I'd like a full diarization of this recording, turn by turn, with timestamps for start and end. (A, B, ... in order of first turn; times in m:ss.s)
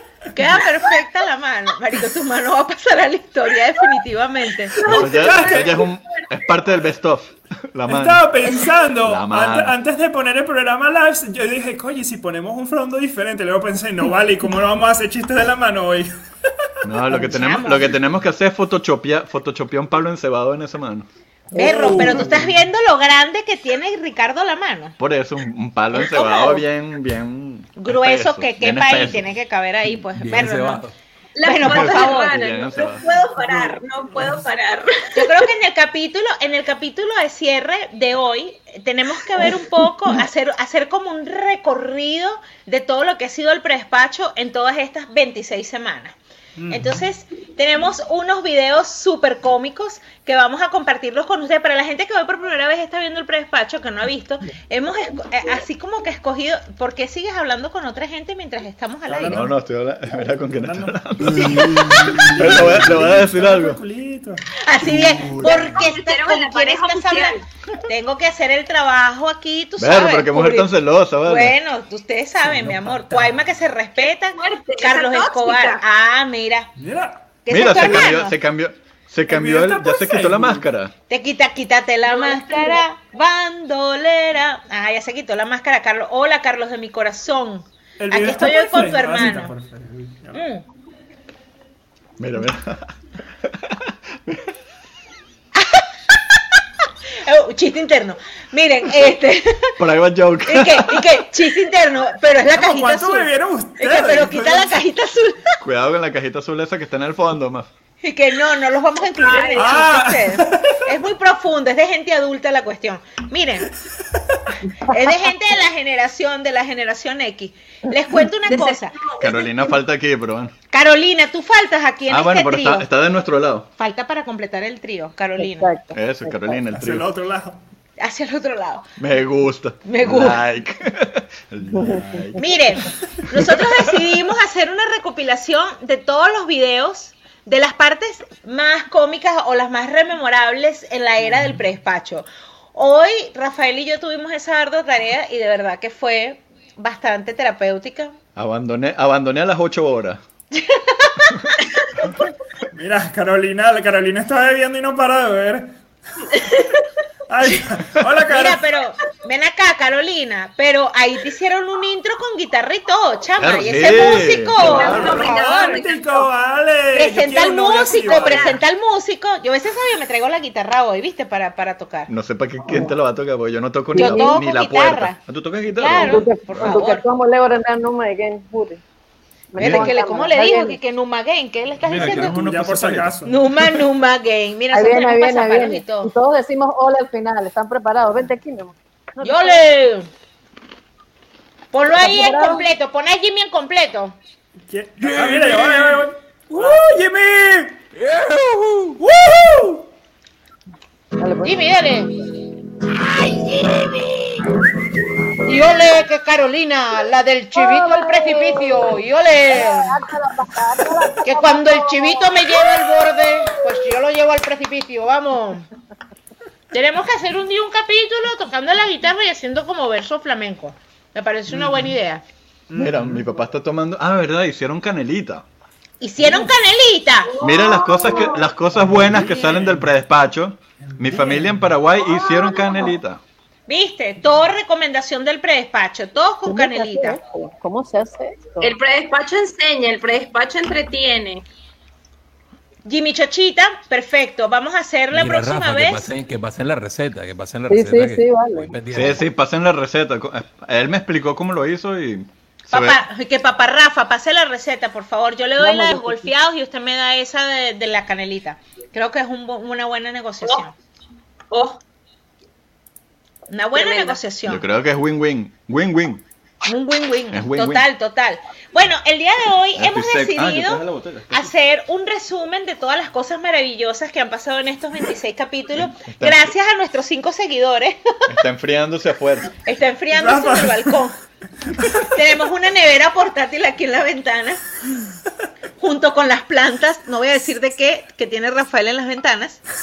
0:00.3-0:04.7 A
0:04.8-0:06.3 B
0:04.8-0:05.8 C
0:04.8-0:08.3 D
0:07.9-0:16.1 C
0:09.0-0:09.7 D
0:16.8-0:21.1 D
0:17.3-0:17.9 A
0:21.5-0:22.1 E
0:21.6-0:25.0 A
0:21.6-0:22.5 C
0:25.0-0:29.3 D
0:25.9-0:26.6 A
0:27.8-0:30.8 A
0:30.2-0:30.9 F
0:31.3-0:35.5 B
0:31.4-0:32.4 A
0:31.6-0:33.1 D
0:35.1-0:46.1 A
0:46.6-0:47.0 C
0:46.7-0:59.4 A
0:59.1-0:59.5 C
0:59.2-1:03.8 D
1:00.5-1:05.0 C
1:04.6-1:16.7 A
1:04.8-1:05.7 D
1:05.4-1:07.4 B
1:09.8-1:11.6 D
1:12.4-1:13.4 C
1:14.1-1:15.8 B
1:16.8-1:18.0 C
1:17.4-1:18.4 A
1:17.5-1:20.9 D
1:19.3-1:20.6 C
1:21.1-1:29.5 A
1:22.1-1:22.8 B
1:28.0-1:30.4 C
1:30.3-1:30.6 A
1:32.2-1:32.9 D
1:33.4-1:34.4 D
1:35.6-1:36.4 A
1:37.2-1:39.8 A
1:39.8-1:41.2 D
1:40.4-1:45.6 A
1:42.5-1:44.8 C
1:45.6-1:47.7 D
1:48.0-1:53.7 A
1:49.2-1:50.1 B
1:49.5-1:50.8 C
1:54.8-1:59.0 A
1:58.4-1:59.7 B
1:59.2-2:00.5 D
2:00.7-2:02.9 A
2:02.1-2:03.7 D
2:03.8-2:05.7 A
2:05.4-2:06.6 E
2:05.9-2:07.1 D
2:06.7-2:07.6 C
2:08.0-2:08.8 A
2:09.0-2:12.6 D
2:09.8-2:10.4 A
2:11.7-2:12.4 E
2:12.4-2:28.1 A
2:13.4-2:13.8 D
2:28.4-2:30.2 D
2:30.5-2:31.5 A
2:32.7-2:35.7 C
2:36.3-2:36.6 B
2:37.3-2:38.6 C
2:38.3-2:45.8 A
2:43.4-2:45.3 D
2:44.6-2:46.2 B
2:44.7-2:48.6 C
2:46.9-2:52.1 A
2:48.0-2:48.6 B
2:52.1-2:56.8 D
2:53.9-2:54.4 E
2:53.9-2:55.2 A
2:55.8-2:57.0 A
2:55.9-2:58.8 E
2:59.5-3:00.8 E
2:59.6-3:02.4 A
2:59.6-2:59.9 D
3:01.8-3:03.2 D
3:02.0-3:03.4 C
3:03.2-3:06.1 A
3:04.7-3:09.6 E
3:09.2-3:10.1 A
3:11.7-3:14.2 A
3:11.9-3:12.6 E
3:14.7-3:17.8 C
3:15.0-3:16.0 F
3:17.9-3:19.0 F
3:19.0-3:19.8 C
3:21.2-3:21.7 E
3:21.4-3:22.1 A
3:25.4-3:30.0 A
3:27.5-3:33.3 E
3:31.2-3:35.6 A
3:36.7-3:42.2 A
3:41.5-3:41.9 C
3:42.7-3:43.2 C
3:42.8-3:45.4 D
3:46.0-3:47.4 A
3:47.3-3:48.5 B
3:47.4-3:53.2 D
3:48.7-3:49.9 C
3:50.9-3:51.8 C
3:52.1-3:52.9 B
3:53.7-3:57.2 A
3:56.5-3:58.7 E
3:58.6-4:01.4 B
4:02.8-4:06.1 A
4:05.1-4:09.2 F
4:07.7-4:08.7 E
4:08.9-4:13.0 D
4:12.7-4:20.7 A
4:15.6-4:16.3 E
4:21.5-4:21.8 B
4:23.5-4:24.6 A
4:23.7-4:24.2 B
4:24.4-4:26.2 D
4:26.6-4:38.0 A
4:27.3-4:27.9 D
4:29.7-4:31.5 D
4:35.8-4:36.5 D
4:38.3-4:39.5 D
4:39.6-4:41.2 A
4:40.1-4:41.0 C
4:41.7-4:42.1 C
4:42.0-4:44.6 A
4:45.8-4:49.6 A